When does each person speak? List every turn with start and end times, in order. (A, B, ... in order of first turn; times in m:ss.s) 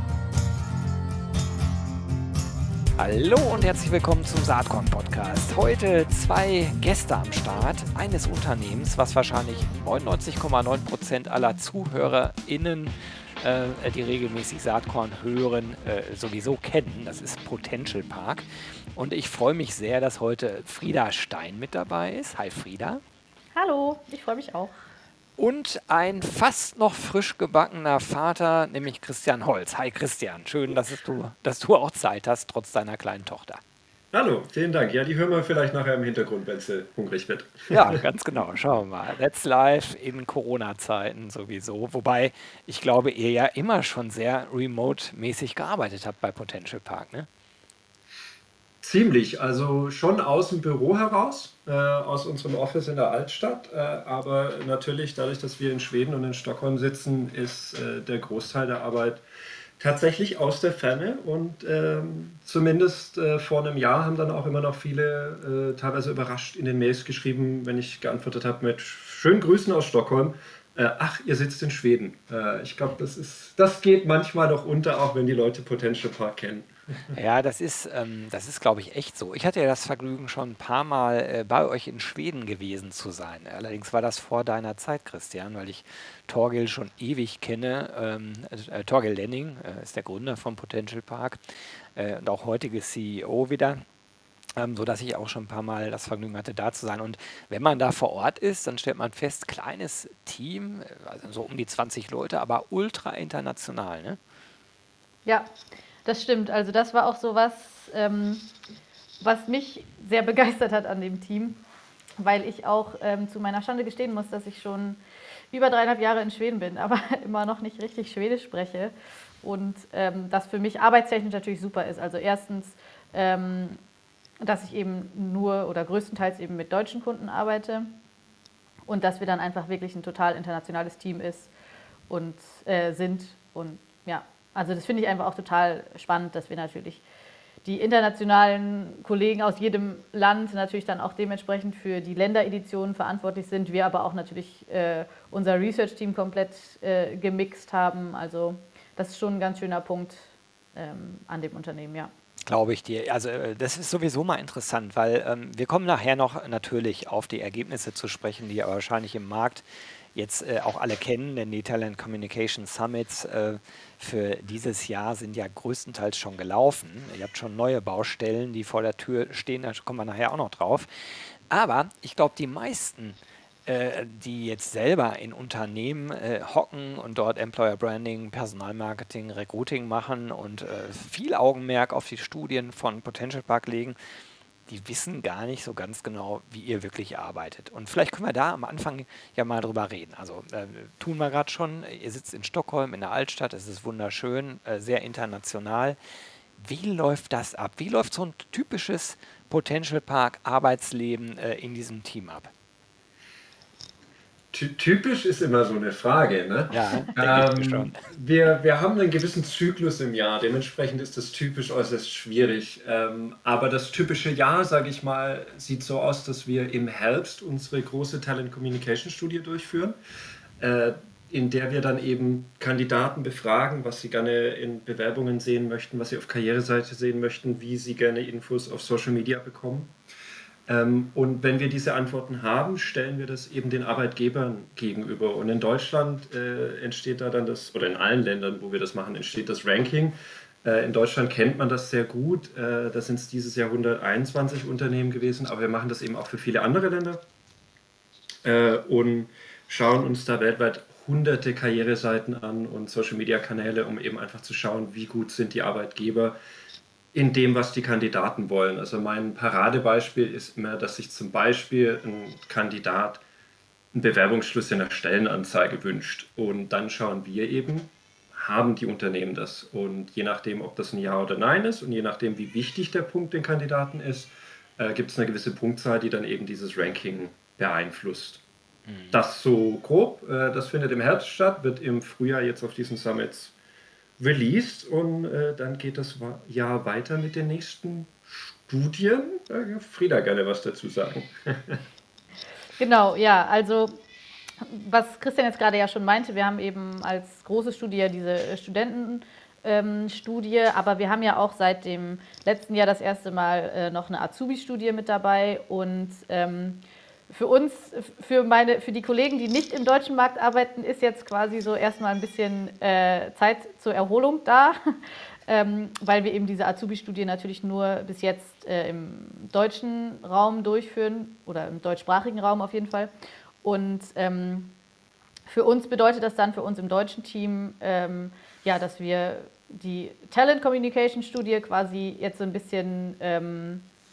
0:03.0-0:23.0 A
0:23.6-0:24.8 B
0:25.4-0:33.6 A
0:34.1-0:38.0 C
0:37.7-0:47.3 A
0:48.8-0:59.2 C
0:59.8-1:17.2 C
1:17.1-1:31.4 A
1:32.0-1:33.8 A
1:34.6-1:44.2 A
1:46.0-1:48.5 B
1:49.2-1:51.6 B
1:52.2-1:55.0 B
1:55.5-2:03.8 B
2:04.4-2:07.9 B
2:08.9-2:11.5 B
2:12.1-2:17.0 B
2:17.6-2:32.1 B
2:32.5-2:39.6 A
2:40.2-3:04.0 A
3:04.7-3:16.0 A
3:16.6-3:22.5 A
3:24.5-3:40.0 C
3:26.7-3:28.0 A
3:40.6-3:49.9 C
3:50.7-4:07.2 C
4:08.4-4:16.4 C
4:17.1-4:23.2 C
4:23.9-4:38.4 C
4:38.9-4:39.2 A
4:39.1-4:43.5 C
4:44.2-4:51.8 C
4:52.8-4:54.0 B
4:54.6-5:14.8 B
5:15.5-5:23.1 B
5:23.6-5:24.7 B
5:25.5-5:33.9 B